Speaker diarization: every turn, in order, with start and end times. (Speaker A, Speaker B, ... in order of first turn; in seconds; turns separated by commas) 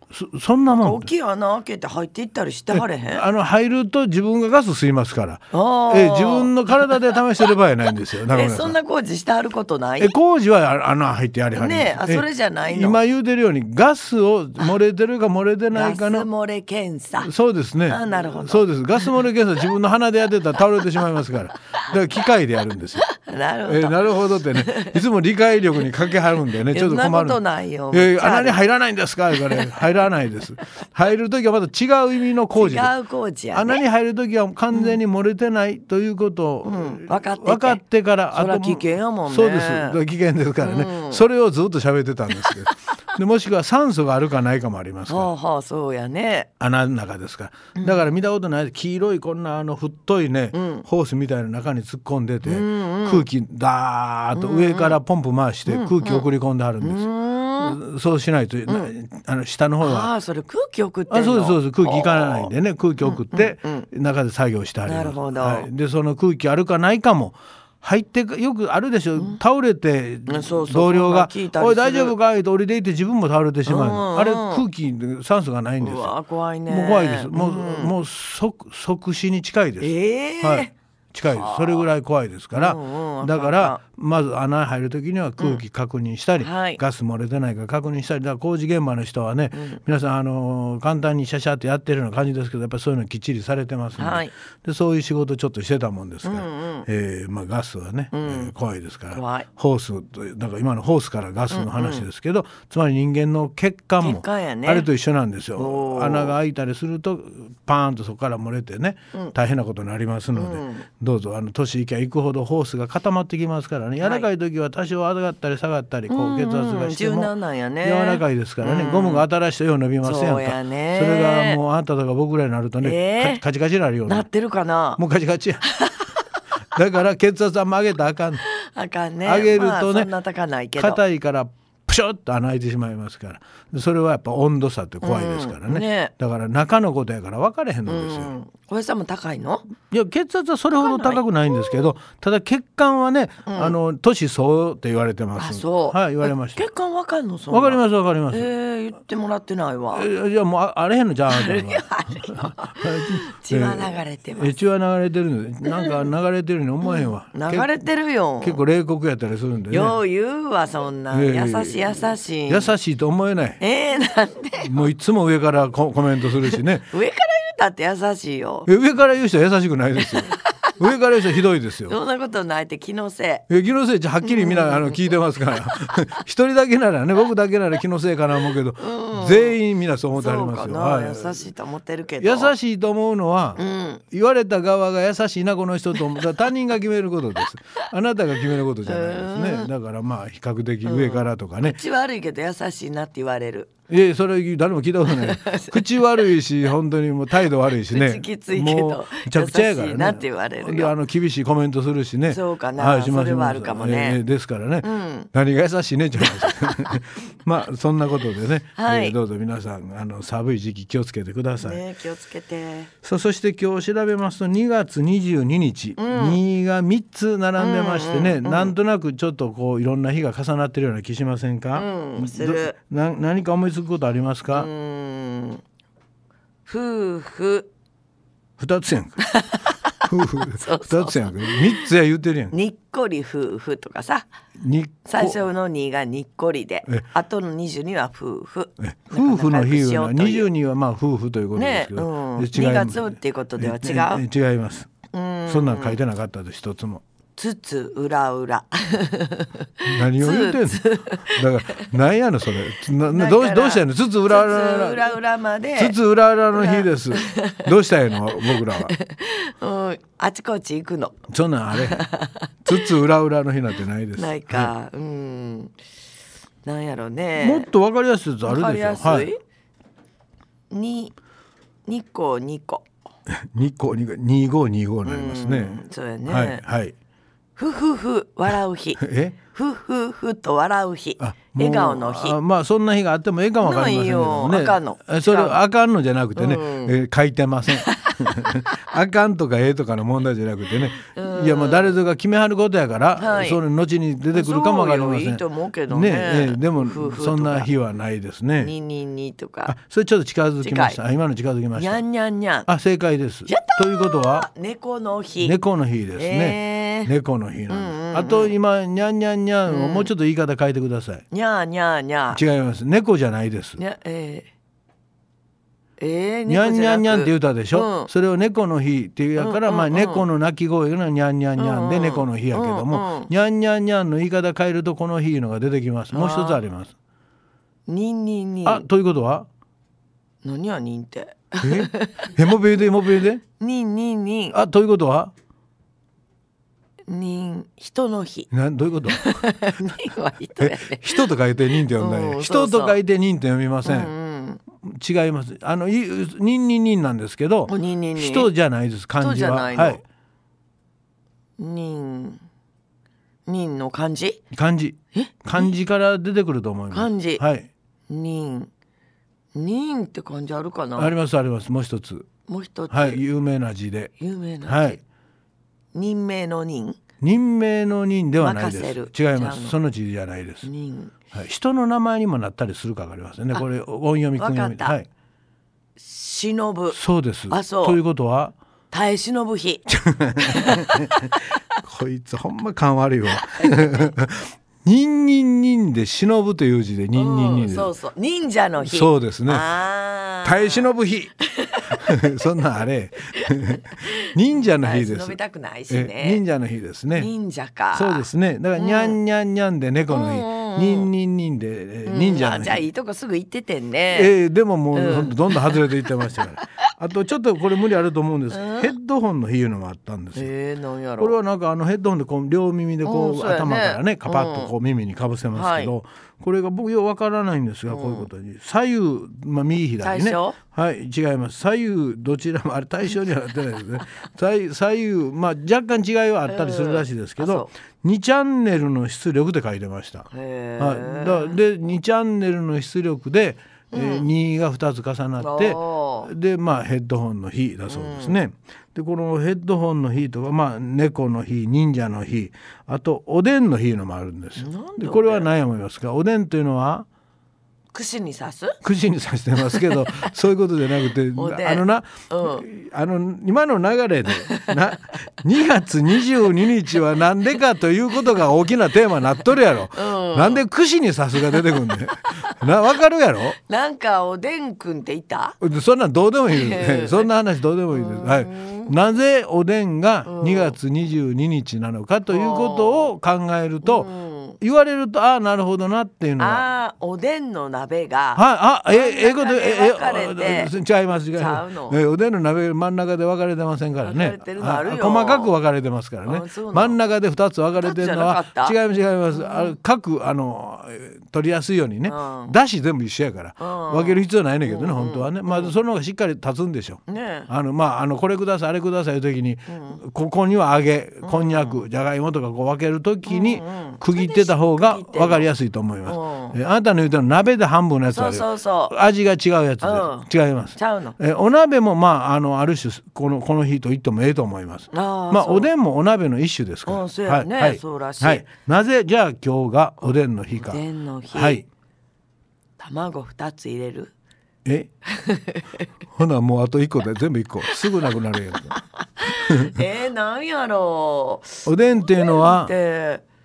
Speaker A: 0.1-1.1, Speaker B: 0.7-3.2, Speaker A: 2.7-8.8, Speaker B: 5.5-7.1, Speaker B: 8.2-10.1, Speaker A: 10.0-16.3, Speaker B: 11.5-13.0, Speaker B: 15.7-17.3, Speaker A: 17.2-32.9, Speaker B: 17.9-18.7, Speaker B: 23.1-25.0, Speaker B: 26.7-28.6, Speaker B: 29.3-29.9, Speaker B: 32.5-33.8, Speaker A: 33.5-45.3, Speaker B: 36.6-37.8, Speaker B: 38.3-40.0, Speaker B: 40.6-41.2, Speaker B: 45.1-46.5, Speaker A: 46.6-60.1, Speaker B: 50.5-50.8, Speaker B: 52.4-53.2, Speaker B: 54.3-55.0, Speaker B: 55.7-56.3, Speaker B: 56.8-57.8, Speaker B: 59.8-63.9, Speaker A: 61.1-76.2, Speaker B: 64.8-65.7, Speaker B: 70.3-72.1, Speaker B: 73.6-74.6, Speaker B: 75.8-77.9, Speaker A: 76.7-124.3, Speaker B: 79.8-80.7, Speaker B: 81.3-81.9, Speaker B: 82.5-83.8, Speaker B: 86.4-86.8, Speaker B: 89.5-89.8, Speaker B: 94.0-94.3, Speaker B: 96.2-96.9, Speaker B: 98.1-98.5, Speaker B: 99.1-99.5, Speaker B: 101.5-102.0, Speaker B: 104.0-104.9, Speaker B: 105.5-106.4, Speaker B: 110.3-110.8, Speaker B: 114.0-114.3, Speaker B: 116.1-119.2, Speaker B: 120.0-121.6, Speaker B: 122.8-123.4, Speaker B: 124.0-125.0, Speaker A: 125.0-125.7, Speaker B: 125.7-126.1, Speaker A: 126.7-128.4, Speaker B: 128.4-131.0, Speaker A: 129.2-130.1, Speaker A: 130.8-138.3, Speaker B: 135.0-136.1, Speaker B: 137.8-139.7, Speaker A: 139.9-146.7, Speaker B: 140.8-141.8, Speaker B: 143.5-143.7, Speaker B: 145.4-150.1, Speaker A: 147.5-148.5, Speaker A: 149.9-157.7, Speaker B: 151.3-154.6, Speaker B: 155.7-156.0, Speaker B: 156.8-158.6, Speaker A: 158.4-160.0, Speaker B: 159.7-162.7, Speaker A: 161.1-163.6, Speaker B: 163.6-164.8, Speaker A: 164.6-166.8, Speaker B: 166.3-168.7, Speaker A: 168.7-171.9, Speaker B: 170.0-170.7, Speaker B: 171.9-173.4, Speaker A: 173.5-181.5, Speaker B: 174.2-175.1, Speaker B: 178.8-179.6, Speaker B: 180.1-182.5, Speaker A: 182.2-191.8, Speaker B: 183.6-184.0, Speaker B: 188.8-189.7, Speaker B: 190.8-193.7, Speaker A: 193.9-211.8, Speaker B: 195.0-196.3, Speaker B: 197.7-200.9, Speaker B: 202.3-204.2, Speaker B: 204.8-205.3, Speaker B: 206.2-207.0, Speaker B: 208.8-209.2, Speaker B: 211.6-212.9, Speaker A: 213.0-224.7, Speaker B: 216.0-216.4, Speaker B: 217.6-218.7, Speaker B: 221.7-222.8, Speaker B: 224.5-225.6, Speaker B: 226.7-227.7, Speaker A: 228.6-229.3, Speaker B: 229.2-231.9, Speaker A: 230.0-232.5, Speaker B: 232.5-234.3, Speaker A: 234.6-235.4, Speaker B: 235.1-240.5, Speaker A: 238.8-244.9, Speaker B: 241.5-244.2, Speaker B: 245.1-246.0, Speaker A: 245.5-247.0, Speaker B: 247.3-251.9, Speaker A: 249.8-255.2, Speaker B: 253.1-256.0, Speaker A: 255.8-258.9, Speaker B: 256.5-257.7, Speaker B: 258.4-263.0, Speaker A: 261.3-262.0, Speaker A: 262.6-264.7, Speaker B: 264.1-265.7, Speaker B: 266.6-267.7, Speaker A: 267.4-269.3, Speaker B: 268.4-269.4, Speaker B: 270.7-271.1, Speaker B: 271.8-272.9, Speaker A: 273.3-276.9, Speaker B: 275.0-276.6, Speaker B: 277.6-282.4, Speaker A: 279.0-279.4, Speaker A: 281.2-298.7, Speaker B: 283.6-285.6, Speaker B: 286.4-286.9, Speaker B: 287.7-288.4, Speaker B: 291.0-291.9, Speaker B: 293.2-293.6, Speaker B: 294.3-297.7, Speaker B: 298.6-299.7, Speaker A: 299.6-302.0, Speaker B: 300.6-301.0, Speaker B: 301.7-302.7, Speaker A: 302.7-304.5, Speaker B: 303.5-305.6, Speaker A: 305.4-311.2, Speaker B: 306.1-307.1, Speaker B: 307.7-308.6, Speaker B: 309.6-310.1, Speaker B: 311.3-312.4, Speaker A: 312.3-313.8, Speaker B: 313.8-314.5, Speaker B: 316.0-318.1, Speaker A: 316.5-326.9, Speaker B: 319.4-320.2, Speaker B: 321.6-323.3, Speaker B: 326.1-326.6, Speaker B: 327.9-328.9, Speaker A: 328.6-329.5, Speaker B: 330.4-332.3, Speaker A: 331.6-333.4, Speaker B: 333.6-334.6, Speaker A: 334.5-335.3, Speaker B: 337.1-338.5, Speaker A: 338.5-339.4, Speaker B: 339.1-341.3, Speaker A: 340.6-344.1, Speaker B: 341.8-343.0, Speaker B: 343.8-344.6, Speaker A: 344.8-350.0, Speaker B: 347.7-348.5, Speaker B: 349.2-350.0, Speaker B: 351.6-352.4, Speaker B: 353.4-354.4, Speaker A: 354.5-357.7, Speaker B: 355.1-355.7, Speaker B: 356.9-357.4, Speaker B: 358.1-358.7, Speaker B: 359.5-361.1, Speaker A: 360.9-362.3, Speaker B: 362.5-363.2, Speaker A: 362.9-364.1, Speaker B: 364.2-365.0, Speaker A: 364.6-365.0, Speaker B: 365.9-367.0, Speaker A: 367.2-370.7, Speaker B: 368.4-369.8, Speaker B: 370.6-371.1, Speaker A: 371.3-375.1, Speaker B: 374.4-375.0, Speaker B: 376.0-377.0, Speaker A: 376.9-378.5, Speaker B: 377.5-378.0, Speaker B: 378.9-379.9, Speaker A: 379.9-387.9, Speaker B: 380.4-381.4, Speaker B: 383.5-384.0, Speaker B: 387.1-392.5, Speaker A: 388.8-389.7, Speaker A: 390.4-391.3, Speaker A: 391.9-395.4, Speaker B: 393.4-396.4, Speaker A: 395.9-397.3, Speaker B: 397.1-399.2, Speaker A: 397.9-402.9, Speaker B: 400.1-401.1, Speaker B: 402.1-404.3, Speaker A: 404.1-410.5, Speaker B: 404.9-406.4, Speaker B: 408.5-408.9, Speaker B: 410.4-411.4, Speaker A: 411.2-447.1, Speaker B: 413.0-414.7, Speaker B: 415.5-415.9, Speaker B: 417.9-418.3, Speaker B: 420.0-420.6, Speaker B: 426.5-427.7, Speaker B: 430.3-431.6, Speaker B: 433.9-434.3, Speaker B: 435.4-436.3, Speaker B: 437.9-438.4, Speaker B: 444.6-445.5, Speaker B: 447.9-448.8, Speaker A: 448.8-463.6, Speaker B: 449.6-450.3, Speaker B: 451.3-452.6, Speaker B: 454.3-455.0, Speaker B: 459.9-460.6, Speaker B: 461.4-462.6, Speaker B: 463.5-465.6, Speaker A: 465.6-474.1, Speaker B: 466.5-467.3, Speaker B: 467.9-468.9, Speaker B: 470.3-470.8, Speaker B: 472.3-473.1, Speaker B: 473.8-474.6, Speaker A: 474.6-476.6, Speaker B: 476.4-480.7, Speaker A: 478.3-520.8, Speaker B: 481.3-482.0, Speaker B: 484.0-485.5, Speaker B: 486.2-487.0, Speaker B: 487.7-488.8, Speaker B: 489.3-489.7, Speaker B: 492.0-492.5, Speaker B: 493.6-495.7, Speaker B: 497.1-497.5, Speaker B: 499.7-500.0, Speaker B: 501.2-501.8, Speaker B: 503.2-505.5, Speaker B: 506.0-506.6, Speaker B: 508.1-508.9, Speaker B: 509.8-511.2, Speaker B: 514.9-515.7, Speaker B: 516.9-518.4, Speaker B: 520.6-521.6, Speaker A: 521.3-521.6, Speaker B: 522.8-524.1, Speaker B: 525.1-525.9, Speaker A: 526.1-529.8, Speaker B: 528.7-533.2, Speaker A: 531.6-532.7